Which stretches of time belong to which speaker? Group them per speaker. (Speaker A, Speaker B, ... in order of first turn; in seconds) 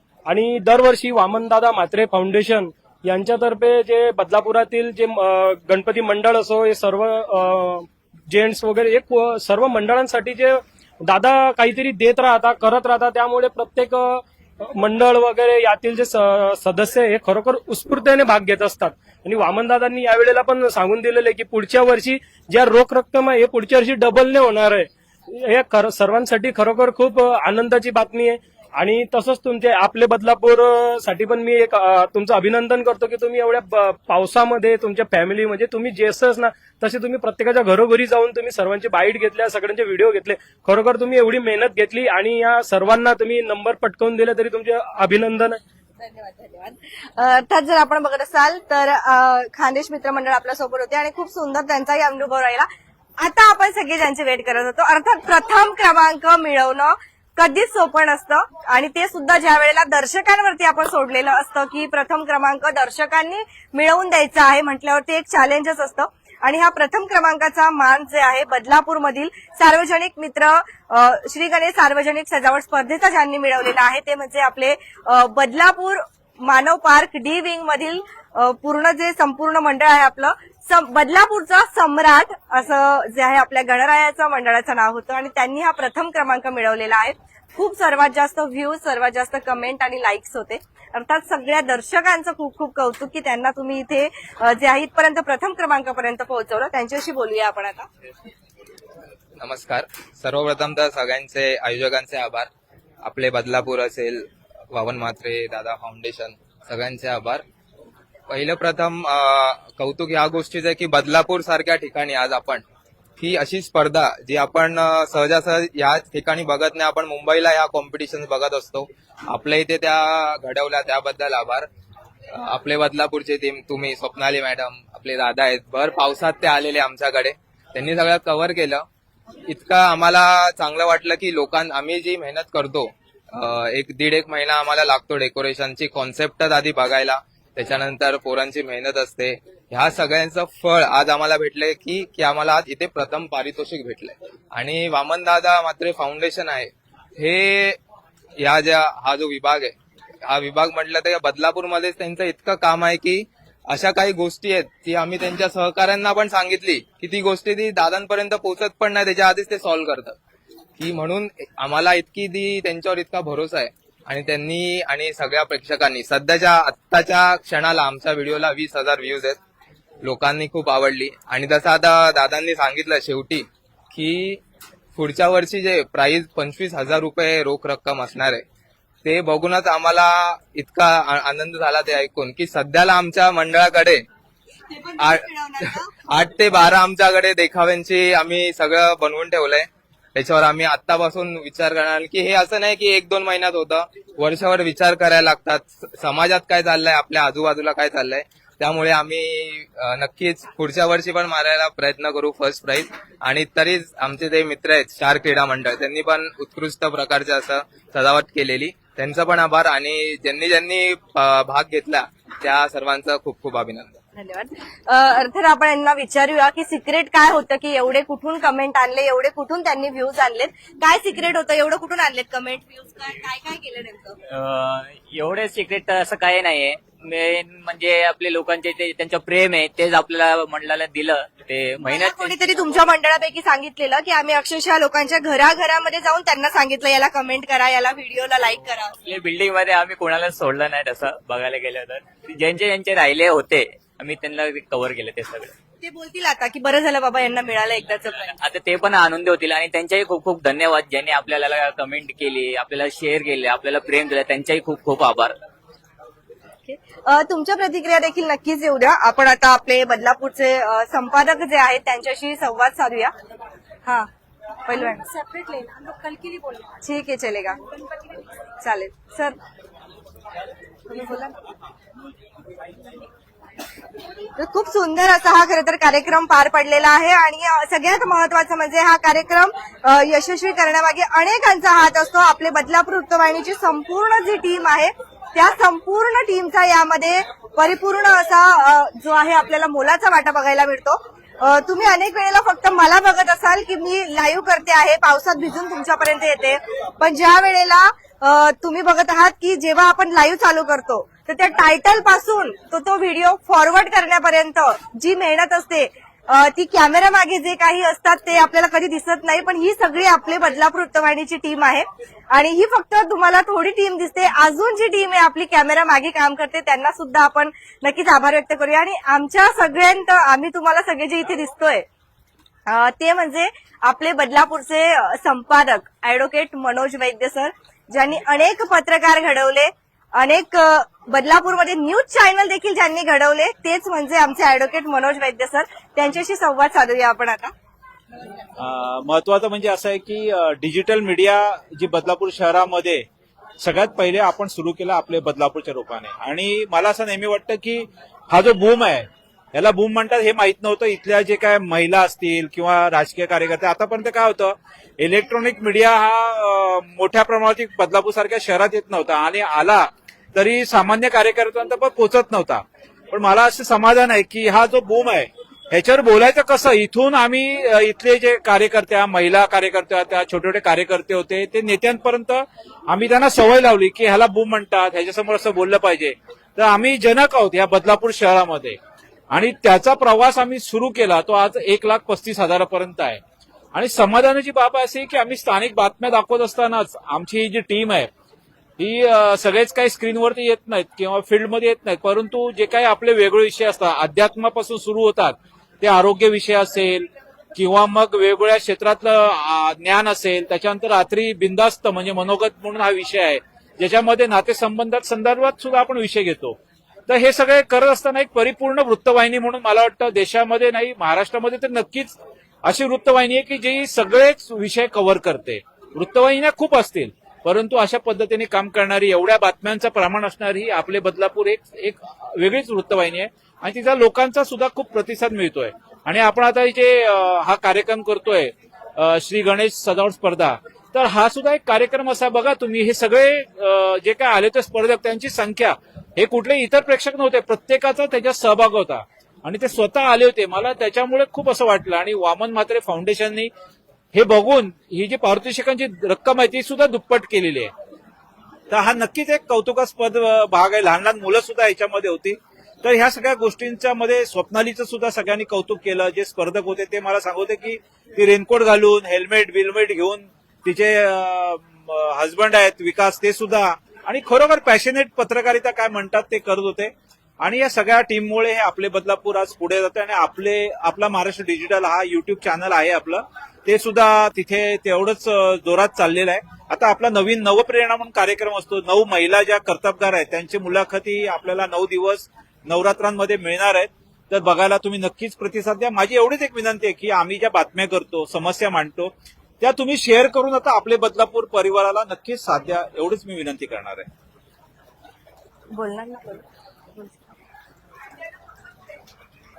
Speaker A: 0.3-14.2, 14.7-45.6
Speaker B: 46.0-52.7, 53.2-97.9, 184.7-185.9, 214.2-224.2, 231.8-239.0, 245.8-248.3, 256.6-263.1, 264.7-265.1, 266.8-267.6, 268.6-269.4, 270.9-271.4, 274.4-321.9, 322.7-337.5, 495.7-496.4, 497.0-497.2
Speaker C: 99.4-102.5, 103.0-107.4, 108.3-112.6, 113.2-121.7, 122.3-128.8, 129.5-147.8, 148.4-149.7, 150.3-160.2, 160.8-169.4, 170.0-174.4, 174.9-178.4, 179.0-184.0, 185.0-185.2, 186.1-213.9
Speaker D: 224.3-232.4, 239.1-245.5, 248.1-255.3
Speaker E: 265.1-266.7, 267.7-268.1
Speaker F: 338.6-343.0, 343.6-378.8, 379.3-383.2, 383.7-388.1, 388.8-406.6, 407.1-443.5, 444.1-447.7, 448.7-466.9, 467.4-494.1